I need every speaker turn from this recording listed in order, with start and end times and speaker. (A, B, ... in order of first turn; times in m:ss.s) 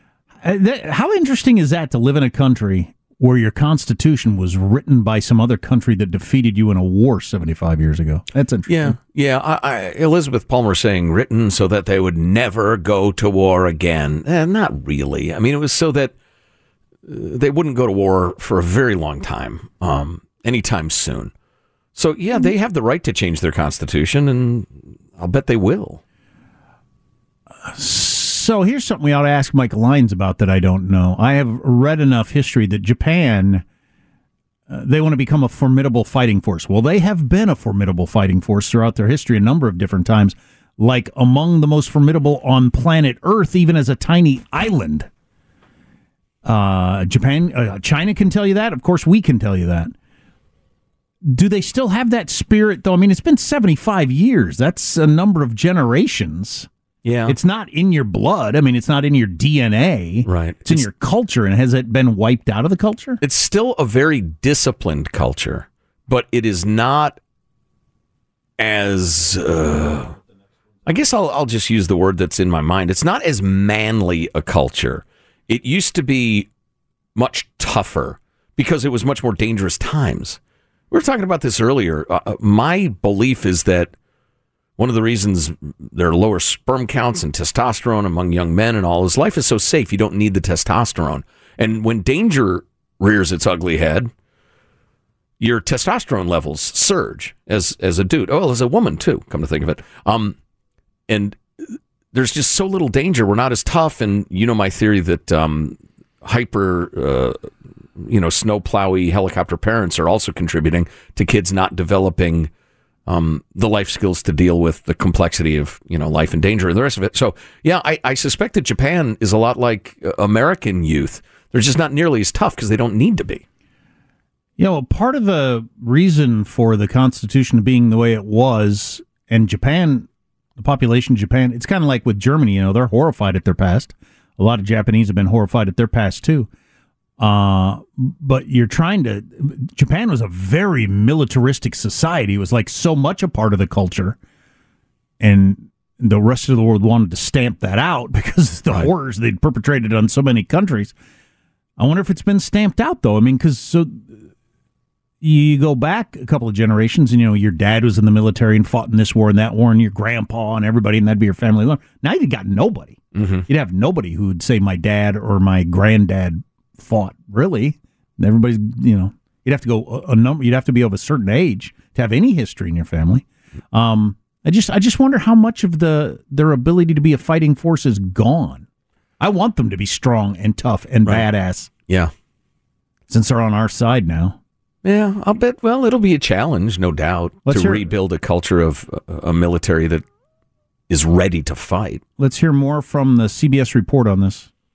0:00.4-0:09.0 A
0:08.7-0:16.1 B
0:17.1-0:21.3 B
0:21.9-0:26.0 B
0:27.6-0:33.6 A
0:34.7-0:45.1 A
0:46.4-0:49.9 A
0:51.2-0:56.7 A
0:57.0-0:57.4 B
0:57.2-1:03.2 A
1:00.2-1:00.9 B
1:03.2-1:07.2 B
1:08.6-1:10.2 B
1:10.8-1:16.5 B
1:17.2-1:20.4 B
1:20.9-1:23.9 B
1:24.8-1:34.1 B
1:35.4-1:40.4 B
1:41.1-1:47.4 B
1:48.0-1:52.5 B
1:53.1-2:03.4 B
2:04.6-2:16.5 A
2:17.2-2:24.2 A
2:25.2-2:30.9 A
2:31.8-2:34.1 A
2:35.2-2:58.6 A
2:43.1-2:43.4 B
2:59.2-3:01.7 A
3:03.1-3:04.4 A
3:04.8-3:10.0 B
3:07.5-3:07.9 A
3:10.9-3:12.0 B
3:12.2-3:14.5 A